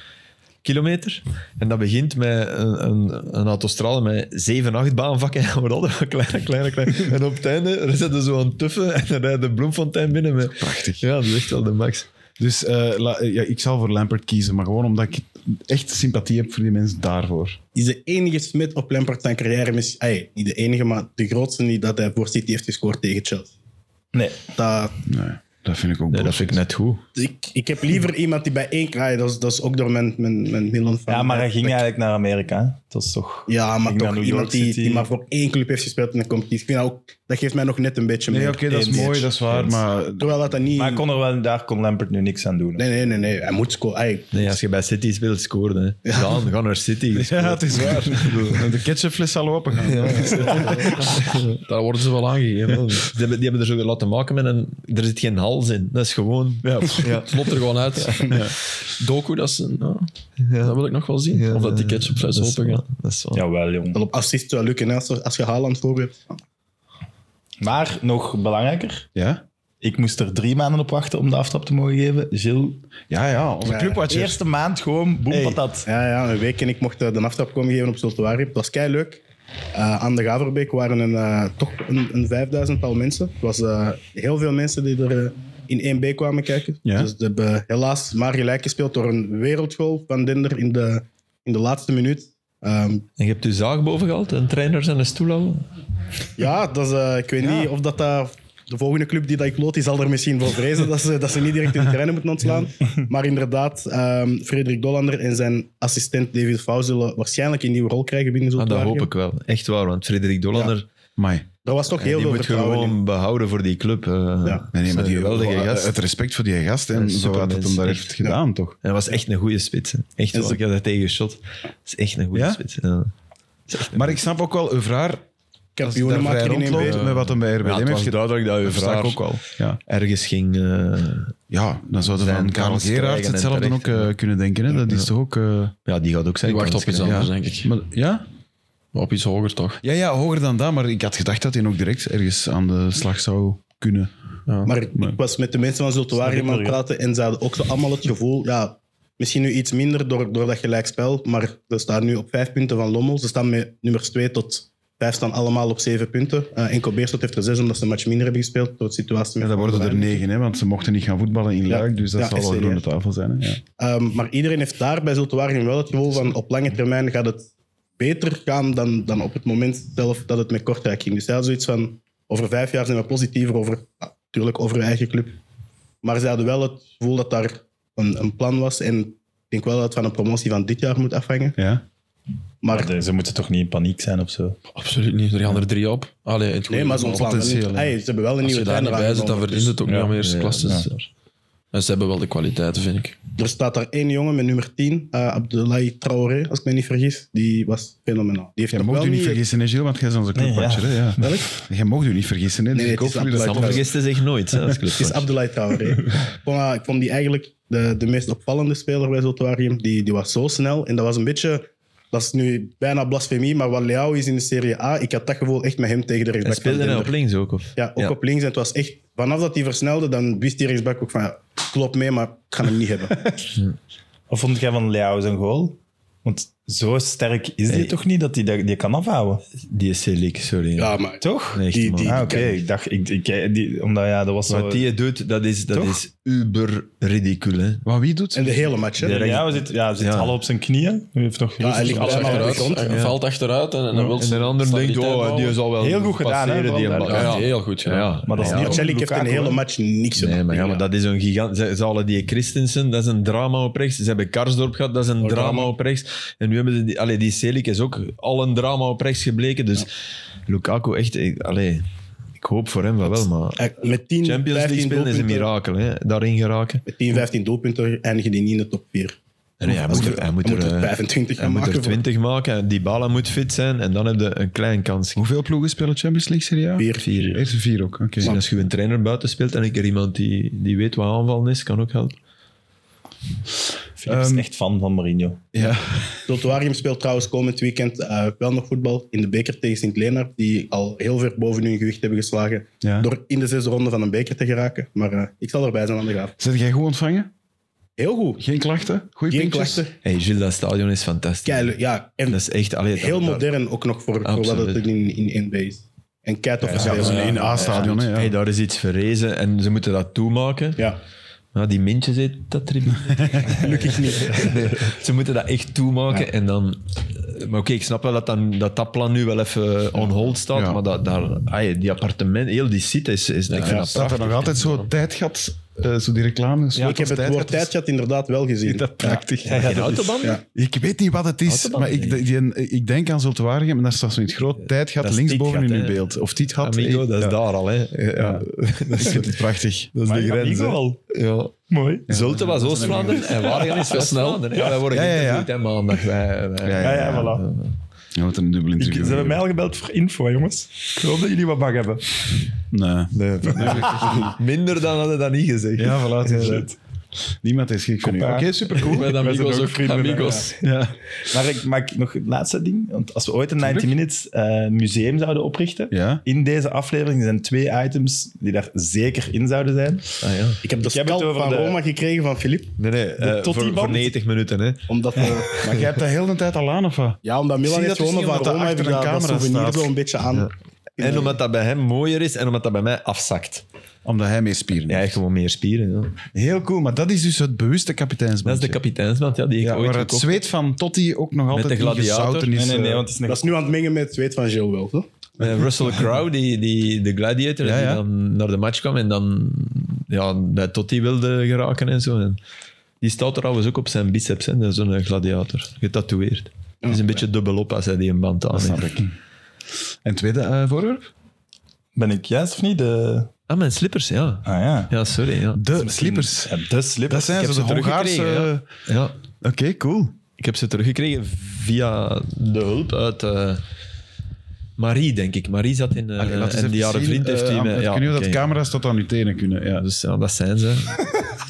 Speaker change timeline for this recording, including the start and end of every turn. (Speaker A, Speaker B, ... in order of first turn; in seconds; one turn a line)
Speaker A: 0.6-12.1
Speaker B: 10.6-11.0
Speaker B: 12.4-17.6
Speaker C: 17.7-23.5
Speaker D: 24.1-24.4
Speaker C: 24.5-24.9
Speaker B: 25.1-26.6
Speaker A: 26.1-27.0
Speaker C: 27.1-31.8
Speaker D: 31.1-35.1
Speaker C: 33.5-39.2
Speaker B: 38.3-40.3
Speaker D: 38.7-39.3
Speaker C: 40.2-41.0
Speaker D: 40.8-42.8
Speaker C: 42.8-44.3
Speaker A: 44.3-48.7
Speaker B: 47.1-51.1
Speaker A: 49.8-51.6
Speaker E: 50.5-53.1
Speaker A: 52.7-58.5
Speaker E: 57.0-62.8
Speaker A: 60.4-60.8
Speaker A: 61.3-63.4
Speaker D: 63.3-64.0
Speaker C: 63.9-66.3
Speaker D: 67.6-69.1
Speaker B: 69.1-69.4
Speaker D: 69.8-72.8
Speaker B: 73.1-74.4
Speaker C: 73.6-74.0
Speaker D: 74.1-75.9
Speaker C: 75.8-79.2
Speaker C: 79.7-93.0
Speaker B: 86.8-87.1
Speaker A: 93.2-95.7
Speaker C: 96.4-109.1
Speaker A: 108.5-110.8
Speaker B: 111.2-111.4
Speaker C: 111.6-113.0
Speaker A: 111.9-116.0
Speaker B: 114.7-118.8
Speaker A: 116.9-118.2
Speaker A: 118.8-123.1
Speaker C: 120.3-120.6
Speaker B: 122.3-122.6
Speaker A: 123.7-124.2
Speaker B: 123.9-125.2
Speaker C: 125.8-127.0
Speaker B: 125.8-129.8
Speaker A: 126.6-131.3
Speaker B: 131.5-135.7
Speaker A: 132.1-134.1
Speaker A: 135.8-137.3
Speaker E: 136.4-137.7
Speaker B: 137.0-138.2
Speaker E: 138.9-139.8
Speaker B: 139.8-144.1
Speaker E: 144.5-144.7
Speaker C: 144.7-160.2
Speaker D: 146.2-146.8
Speaker B: 159.4-163.6
Speaker C: 161.7-162.8
Speaker C: 163.8-175.4
Speaker C: 176.0-181.6
Speaker B: 181.6-181.8
Speaker C: 182.6-182.9
Speaker D: 182.7-184.6
Speaker E: 184.7-187.3
Speaker C: 186.7-189.7
Speaker B: 187.1-187.9
Speaker E: 188.4-190.9
Speaker D: 189.8-190.9
Speaker A: 190.2-191.1
Speaker E: 191.7-193.2
Speaker C: 193.4-199.4
Speaker B: 198.7-203.9
Speaker D: 200.3-201.4
Speaker C: 201.2-201.5
Speaker C: 202.7-203.9
Speaker A: 203.3-205.3
Speaker C: 204.9-217.1
Speaker A: 216.4-218.2
Speaker C: 217.8-223.3
Speaker D: 224.3-229.4
Speaker A: 227.7-227.9
Speaker A: 229.6-230.9
Speaker C: 230.8-232.6
Speaker D: 231.2-234.9
Speaker A: 231.5-232.4
Speaker A: 234.5-237.8
Speaker D: 235.7-236.0
Speaker B: 237.8-238.7
Speaker C: 238.3-239.3
Speaker D: 239.0-242.7
Speaker A: 239.0-240.3
Speaker C: 241.6-243.0
Speaker E: 241.8-245.6
Speaker A: 242.8-243.2
Speaker D: 243.9-244.2
Speaker A: 244.2-248.8
Speaker D: 245.8-247.4
Speaker E: 247.0-248.2
Speaker D: 248.2-249.6
Speaker C: 248.4-250.8
Speaker A: 250.2-259.9
Speaker C: 255.2-255.6
Speaker A: 260.5-261.8
Speaker A: 262.4-263.6
Speaker C: 263.6-265.5
Speaker A: 264.2-266.9
Speaker C: 266.9-272.0
Speaker A: 269.6-275.2
Speaker B: 269.7-270.2
Speaker B: 275.1-278.4
Speaker C: 276.8-277.4
Speaker A: 277.0-277.4
Speaker A: 278.2-282.1
Speaker D: 284.0-285.5
Speaker B: 284.1-284.4
Speaker B: 285.5-286.2
Speaker C: 286.3-296.3
Speaker B: 292.8-293.1
Speaker B: 296.4-297.3
Speaker C: 298.0-298.4
Speaker B: 298.4-299.8
Speaker C: 299.3-299.9
Speaker A: 300.0-301.7
Speaker C: 301.4-302.4
Speaker A: 302.3-303.5
Speaker C: 302.9-307.9
Speaker A: 304.2-304.8
Speaker B: 306.7-308.4
Speaker A: 306.8-310.9
Speaker E: 307.0-307.4
Speaker A: 311.5-324.8
Speaker B: 313.2-313.4
Speaker C: 313.5-314.7
Speaker B: 320.5-320.8
Speaker C: 323.6-324.0
Speaker B: 323.9-327.7
Speaker C: 326.8-329.3
Speaker B: 328.6-329.7
Speaker D: 329.4-330.3
Speaker A: 329.5-330.4
Speaker B: 330.5-337.3
Speaker A: 331.5-332.2
Speaker A: 335.0-336.0
Speaker A: 336.6-341.5
Speaker B: 338.1-339.9
Speaker D: 340.0-341.0
Speaker D: 341.7-342.1
Speaker B: 342.1-343.4
Speaker A: 342.1-347.7
Speaker E: 343.9-344.4
Speaker B: 344.9-345.5
Speaker B: 346.6-347.4
Speaker D: 346.8-347.4
Speaker B: 348.1-349.4
Speaker D: 348.8-352.3
Speaker B: 352.7-354.3
Speaker A: 353.1-356.7
Speaker B: 355.8-356.7
Speaker B: 357.4-359.1
Speaker D: 358.0-360.6
Speaker E: 358.8-360.6
Speaker B: 360.6-360.9
Speaker D: 361.3-370.2
Speaker B: 363.6-363.9
Speaker B: 365.9-366.2
Speaker A: 370.2-370.6
Speaker C: 370.6-372.7
Speaker D: 370.8-371.8
Speaker A: 372.8-375.9
Speaker D: 373.2-374.1
Speaker C: 374.9-375.6
Speaker B: 375.6-379.9
Speaker C: 377.2-381.4
Speaker A: 380.3-383.6
Speaker B: 384.0-385.2
Speaker A: 384.9-386.2
Speaker B: 386.3-388.8
Speaker A: 388.4-390.4
Speaker B: 389.6-393.1
Speaker A: 391.5-392.5
Speaker D: 392.5-393.4
Speaker C: 393.3-395.1
Speaker A: 395.4-402.4
Speaker B: 397.6-398.0
Speaker A: 403.0-408.9
Speaker C: 406.8-407.2
Speaker B: 408.5-409.1
Speaker B: 410.0-411.1
Speaker D: 411.9-413.3
Speaker A: 413.5-415.6
Speaker D: 414.4-414.9
Speaker B: 415.5-416.5
Speaker D: 415.8-417.5
Speaker B: 417.1-418.6
Speaker A: 417.4-419.1
Speaker B: 419.4-420.1
Speaker A: 420.4-423.6
Speaker A: 424.8-428.4
Speaker B: 426.2-429.8
Speaker A: 429.8-431.1